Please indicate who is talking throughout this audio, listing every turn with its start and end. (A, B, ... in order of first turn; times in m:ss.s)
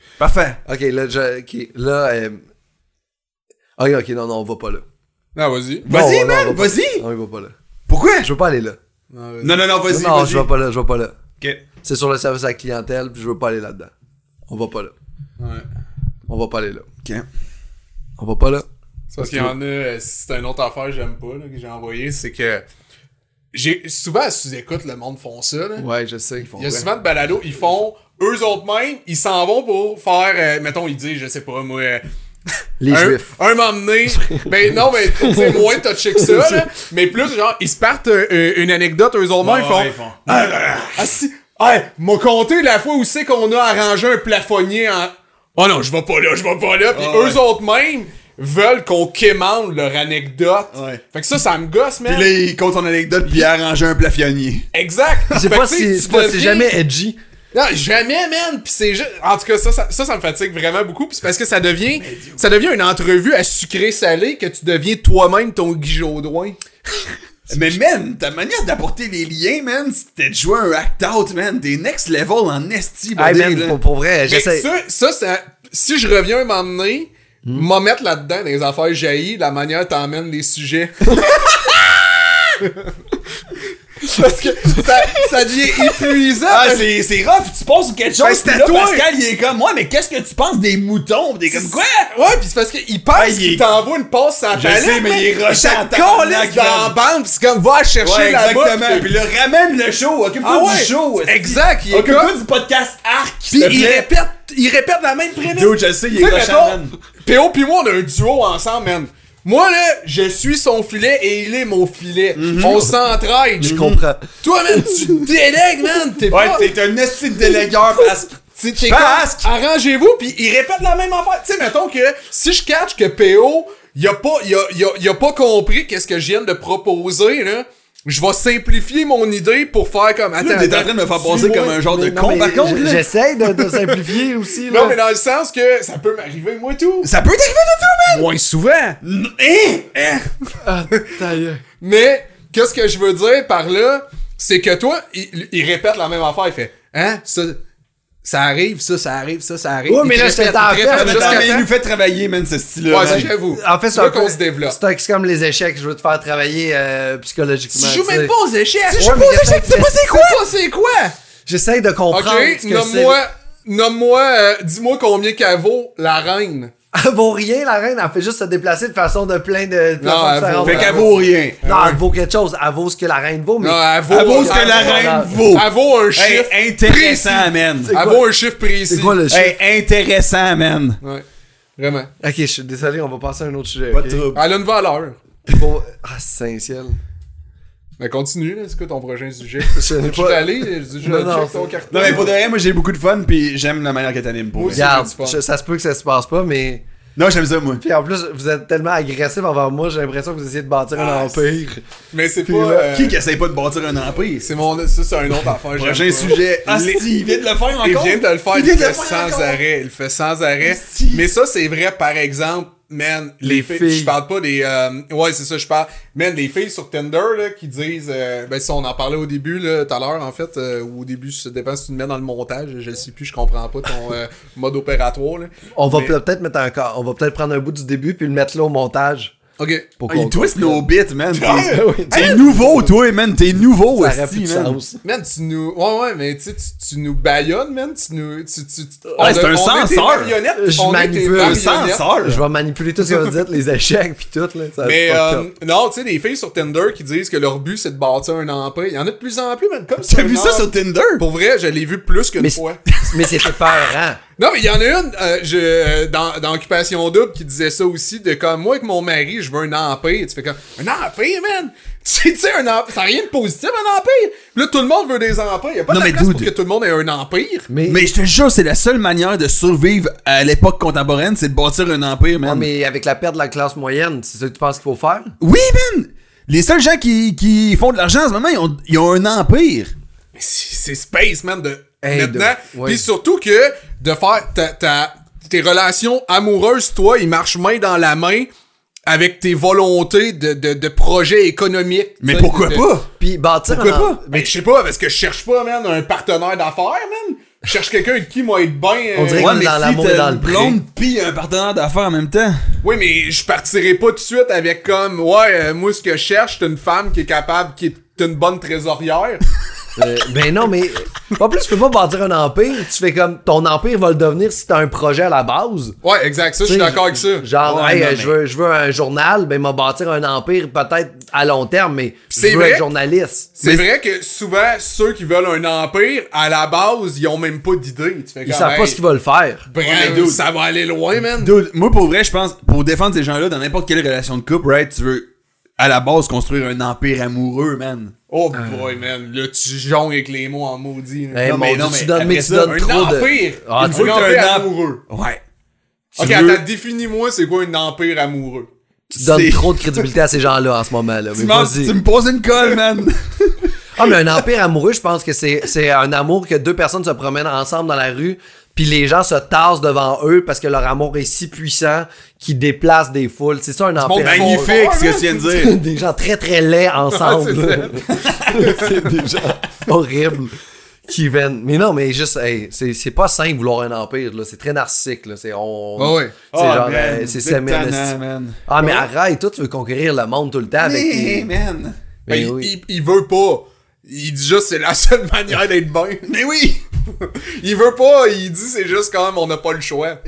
0:00.2-0:00.6 A
0:00.7-0:02.4 B
0:03.8-0:04.8 B
0:05.4-0:05.9 C
0:05.8-0:07.0 A
0:05.9-0:07.5 B
0:07.9-0:08.3 A
0:08.2-0:08.8 B
0:09.1-0:09.6 C
0:09.4-0:10.5 A
0:09.9-0:11.2 B
0:11.8-0:13.9 B
0:14.5-0:14.9 B
0:15.4-0:15.6 C
0:16.3-0:16.9 B
0:18.2-0:18.7 B
0:19.1-0:22.6 C
0:19.2-0:19.5 B
0:23.5-0:25.9 C
0:25.8-0:26.6 B
0:26.5-0:26.8 A
0:26.6-0:32.0 C
0:32.8-0:33.3 B
0:32.9-0:52.3 C
0:34.1-0:36.7 B
0:39.4-0:41.1 A
0:46.9-0:47.4 A
0:50.7-0:51.0 A
0:52.0-0:54.7 A
0:54.7-0:56.7 C
0:55.3-0:57.2 B
0:57.5-1:06.6 C
1:02.0-1:02.4 A
1:07.5-1:13.8 A
1:13.2-1:14.7 B
1:14.3-1:21.6 C
1:22.6-1:22.9 C
1:24.0-1:26.9 C
1:26.5-1:31.9 A
1:28.2-1:29.0 C
1:31.5-1:39.1 C
1:33.2-1:33.7 A
1:34.5-1:37.0 A
1:38.0-1:44.1 A
1:40.4-1:42.3 C
1:43.5-1:53.8 C
1:45.5-1:47.0 A
1:52.4-1:52.9 A
1:53.6-1:54.0 A
1:53.6-1:55.3 B
1:54.4-1:56.7 C
1:56.3-1:59.5 A
1:58.5-2:11.7 C
2:10.4-2:13.1 A
2:11.3-2:15.0 B
2:13.7-2:14.1 C
2:14.6-2:17.1 C
2:17.0-2:18.3 A
2:18.1-2:19.0 C
2:19.0-2:20.3 A
2:20.6-2:21.6 B
2:21.8-2:27.6 C
2:28.2-2:31.7 C
2:29.9-2:31.5 B
2:30.9-2:33.3 A
2:32.9-2:34.8 C
2:33.0-2:38.3 B
2:37.7-2:41.1 C
2:38.9-2:40.4 A
2:38.9-2:40.0 B
2:41.5-2:43.2 B
2:42.1-2:46.7 C
2:46.9-2:55.4 B
2:50.0-2:52.0 C
2:50.6-2:51.6 A
2:53.6-2:59.2 C
2:54.1-2:58.0 A
2:57.8-2:58.3 B
2:58.9-2:59.6 B
2:59.3-3:01.0 A
3:01.8-3:02.1 C
3:02.2-3:04.2 B
3:03.9-3:04.5 A
3:04.3-3:05.2 C
3:05.5-3:07.0 B
3:08.0-3:12.3 C
3:09.7-3:12.2 B
3:11.9-3:14.9 A
3:14.5-3:15.4 C
3:14.7-3:16.8 B
3:17.2-3:17.8 A
3:17.8-3:21.8 B
3:21.0-3:21.4 C
3:22.1-3:23.2 C
3:22.5-3:22.9 B
3:22.9-3:24.6 A
3:24.4-3:27.1 C
3:25.7-3:29.6 A
3:27.8-3:46.2 C
3:30.6-3:31.3 A
3:33.4-3:34.2 B
3:45.8-3:49.4 B
3:49.6-3:49.9 C
3:50.0-3:50.9 B
3:50.1-3:54.8 A
3:51.4-3:52.8 C
3:51.5-3:52.9 B
3:53.9-3:55.0 B
3:55.0-4:02.1 C
3:59.2-3:59.4 B
3:59.2-4:00.4 A
4:00.6-4:01.7 B
4:01.4-4:02.4 A
4:02.2-4:05.5 B
4:04.8-4:12.8 C
4:10.0-4:11.2 A
4:12.4-4:14.2 B
4:12.9-4:13.5 A
4:14.4-4:27.7 C
4:25.9-4:26.5 A
4:27.7-4:28.1 B
4:27.9-4:32.7 A
4:32.4-4:35.3 B
4:35.4-4:39.9 A
4:40.4-4:48.5 C
4:42.0-4:43.0 B
4:49.1-4:52.9 C
4:52.2-4:53.1 A
4:53.2-4:54.5 B
4:53.7-4:59.5 C
4:59.2-5:00.8 B
4:59.4-5:02.6 A
5:02.8-5:09.4 C
5:10.0-5:16.0 B
5:16.0-5:17.5 C
5:16.6-5:23.7 B
5:17.6-5:18.4 A
5:22.3-5:22.9 C
5:23.6-5:29.0 C
5:28.4-5:29.7 B
5:29.7-5:31.5 C
5:29.8-5:30.4 A
5:31.3-5:35.3 A
5:35.8-5:38.1 A
5:38.3-5:41.4 C
5:38.6-5:38.8 B
5:41.3-5:44.3 B
5:41.4-5:42.8 A
5:42.7-5:45.0 C
5:43.8-5:45.4 A
5:46.2-5:46.6 A
5:46.2-5:48.7 C
5:49.1-5:52.0 B
5:49.1-5:50.2 A
5:51.3-5:54.1 A
5:54.0-6:04.7 B
6:04.0-6:05.4 C
6:04.2-6:05.8 A
6:05.4-6:10.6 B
6:07.1-6:09.1 C
6:08.2-6:08.7 A
6:11.1-6:18.1 B
6:16.0-6:16.4 C
6:16.5-6:19.0 A
6:18.7-6:21.5 B
6:20.8-6:22.0 A
6:22.3-6:22.7 B
6:22.3-6:26.3 C
6:26.3-6:26.8 A
6:27.2-6:30.2 C